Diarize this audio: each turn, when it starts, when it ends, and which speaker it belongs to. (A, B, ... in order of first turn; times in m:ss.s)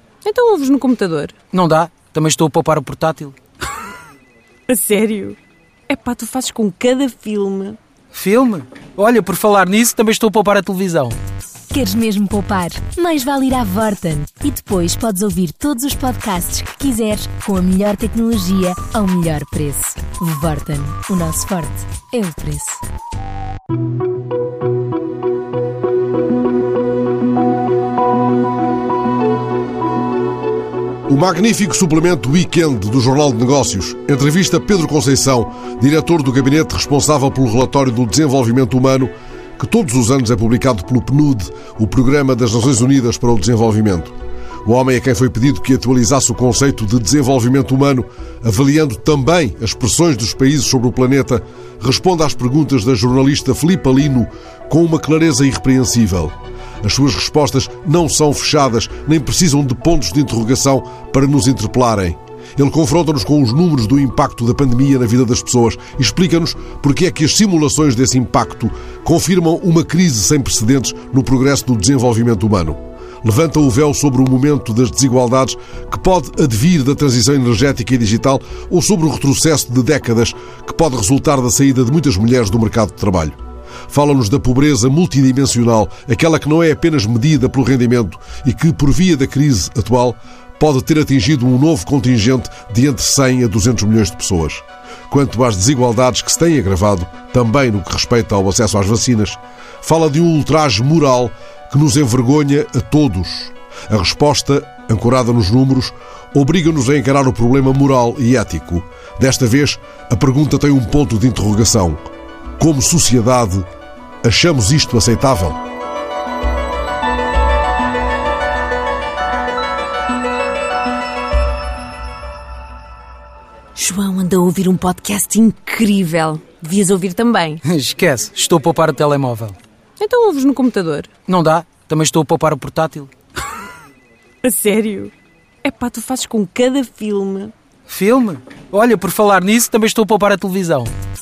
0:00.2-0:01.4 A
0:01.5-0:03.4 B
0:04.7-0:05.4 A
0:05.9-0:07.8 A
0:08.1-0:11.2 B
0:11.7-0:22.8 C
0:31.1-0:44.1 D
0:44.6-1:23.4 D
1:23.9-1:53.7 D
1:54.2-1:55.6 D
2:03.8-2:07.6 A
2:07.6-2:09.6 B
2:10.0-2:11.1 A
2:11.3-2:13.1 B
2:14.4-2:17.5 A
2:17.9-2:20.9 B